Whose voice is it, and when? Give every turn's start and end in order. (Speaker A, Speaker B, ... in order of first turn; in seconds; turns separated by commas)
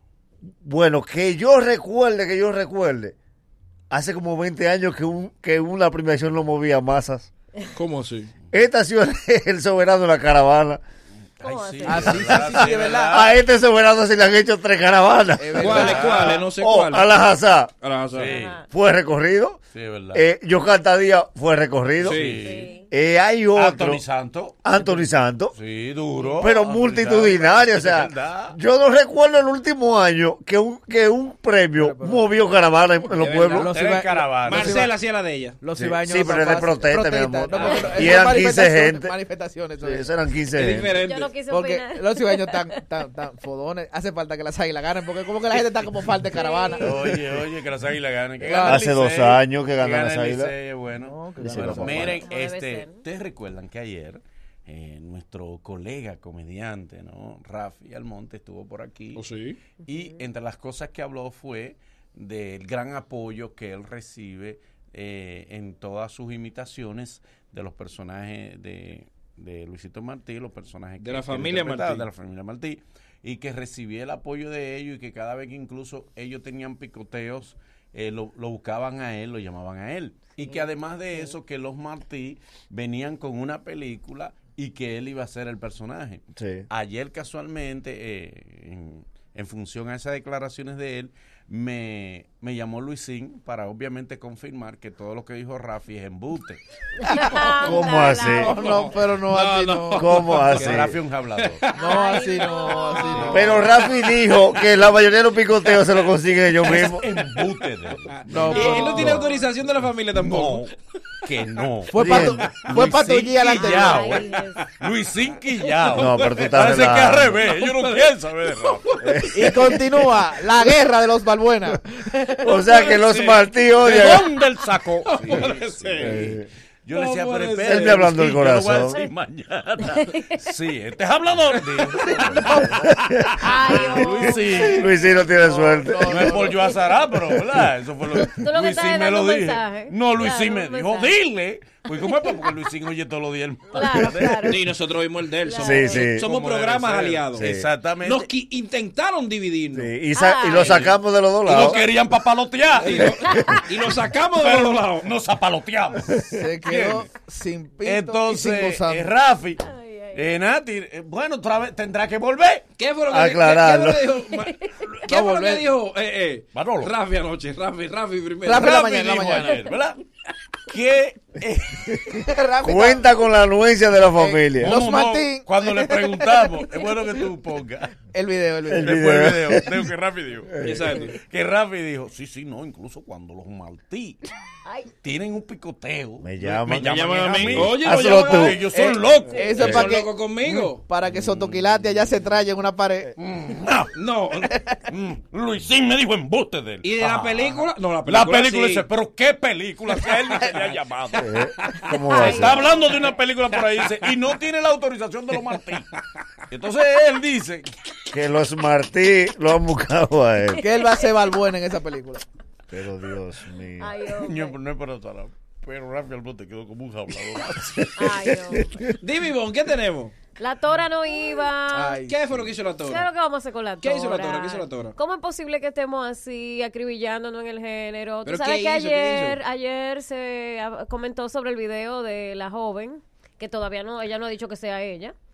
Speaker A: 0.6-3.2, Speaker A: 3.9-7.3, Speaker B: 7.7-8.3, Speaker A: 8.5-10.8, Speaker C: 11.4-13.4, Speaker D: 11.4-12.2, Speaker E: 11.8-13.2, Speaker A: 12.2-17.7, Speaker E: 15.4-16.3, Speaker B: 15.6-17.1, Speaker C: 15.6-16.4, Speaker B: 17.8-18.4, Speaker C: 18.1-18.6, Speaker D: 18.3-18.7, Speaker A: 18.7-19.6, Speaker C: 19.7-20.3, Speaker A: 20.1-22.4, Speaker C: 22.0-22.8, Speaker B: 22.0-22.5, Speaker D: 22.4-22.9, Speaker A: 22.9-24.0, Speaker C: 23.5-25.0, Speaker A: 24.6-25.6, Speaker C: 25.5-28.6, Speaker A: 26.4-33.7, Speaker E: 31.8-32.3, Speaker B: 33.1-33.7, Speaker E: 33.5-34.9, Speaker C: 33.5-34.8, Speaker B: 34.4-35.6, Speaker E: 35.6-40.1, Speaker A: 35.8-39.2, Speaker C: 37.5-38.3, Speaker D: 37.6-37.9, Speaker A: 39.8-41.0, Speaker B: 40.5-41.3, Speaker D: 40.9-42.8, Speaker E: 41.5-47.2, Speaker D: 46.3-47.1, Speaker C: 46.8-59.2, Speaker E: 48.4-48.9, Speaker A: 48.6-50.5, Speaker E: 51.0-52.3, Speaker A: 51.4-52.2, Speaker D: 51.9-53.0, Speaker B: 59.1-59.6, Speaker C: 59.9-96.6, Speaker B: 71.0-72.1, Speaker A: 86.4-86.7, Speaker D: 97.0-98.6, Speaker C: 97.3-97.9, Speaker B: 97.4-97.8, Speaker A: 97.6-98.6, Speaker E: 98.3-100.6, Speaker B: 98.5-100.9, Speaker A: 100.0-101.0, Speaker C: 100.5-101.7, Speaker B: 101.4-102.0, Speaker D: 101.8-103.9, Speaker E: 101.8-103.7, Speaker C: 103.0-103.7, Speaker A: 103.3-107.0, Speaker C: 106.6-109.2, Speaker B: 106.7-110.7, Speaker E: 108.3-109.2, Speaker A: 108.3-109.2, Speaker D: 108.7-109.5, Speaker C: 110.2-110.7, Speaker C: 111.2-118.9, Speaker E: 111.9-114.2, Speaker A: 111.9-112.5, Speaker D: 113.5-114.6, Speaker B: 114.3-114.6, Speaker A: 115.9-117.4, Speaker B: 115.9-116.7, Speaker B: 117.3-120.6, Speaker A: 119.0-119.7, Speaker E: 119.3-122.8, Speaker A: 122.4-124.3, Speaker B: 122.6-124.1, Speaker C: 123.8-144.6, Speaker B: 125.1-126.3, Speaker A: 126.0-126.5, Speaker B: 126.9-128.1, Speaker A: 127.7-129.0, Speaker D: 129.8-130.4, Speaker B: 131.8-132.8, Speaker D: 132.4-132.7, Speaker A: 133.1-133.5, Speaker D: 133.4-134.9, Speaker A: 134.6-136.4, Speaker E: 135.3-136.7, Speaker D: 138.1-141.2, Speaker D: 141.9-142.4, Speaker D: 143.7-144.6, Speaker B: 144.4-147.5, Speaker D: 145.4-146.1, Speaker A: 145.6-146.3, Speaker C: 145.9-148.3, Speaker A: 147.4-147.7, Speaker B: 148.0-149.9, Speaker A: 149.7-151.8, Speaker D: 150.1-151.0, Speaker C: 150.5-153.2, Speaker B: 152.7-155.1, Speaker A: 153.3-153.7, Speaker C: 154.4-157.1, Speaker E: 156.3-159.1, Speaker C: 157.8-162.7, Speaker D: 159.6-160.3, Speaker B: 162.8-168.8, Speaker A: 163.1-164.1, Speaker D: 164.3-164.9, Speaker E: 165.1-165.7, Speaker C: 166.5-167.0, Speaker E: 168.4-169.6, Speaker C: 168.5-170.0, Speaker C: 170.7-172.0, Speaker E: 172.1-173.2, Speaker A: 172.1-174.7, Speaker E: 174.1-176.6, Speaker C: 174.6-178.0, Speaker E: 178.1-178.9, Speaker A: 178.7-179.9, Speaker C: 178.7-184.3, Speaker A: 180.5-181.0, Speaker B: 180.6-181.1, Speaker D: 184.7-184.9, Speaker C: 185.0-192.1, Speaker A: 186.2-188.6, Speaker B: 186.7-188.6, Speaker E: 188.7-190.1, Speaker D: 189.3-189.6, Speaker B: 189.6-190.8, Speaker E: 190.8-193.1, Speaker C: 193.2-201.3, Speaker B: 193.9-194.5, Speaker E: 194.4-194.8, Speaker B: 196.8-198.9, Speaker B: 200.1-200.4, Speaker A: 201.2-202.7, Speaker B: 201.6-202.0, Speaker D: 202.1-203.1, Speaker C: 202.1-205.9, Speaker C: 206.5-207.7, Speaker A: 208.1-210.6, Speaker E: 210.6-212.2, Speaker D: 210.6-211.2, Speaker A: 212.7-213.9, Speaker D: 213.8-214.6, Speaker C: 214.2-218.5, Speaker D: 218.0-218.9, Speaker B: 219.0-220.2, Speaker D: 220.4-222.0, Speaker E: 221.7-222.5, Speaker B: 222.1-223.1, Speaker D: 222.8-235.2, Speaker B: 223.8-225.0, Speaker B: 228.2-229.4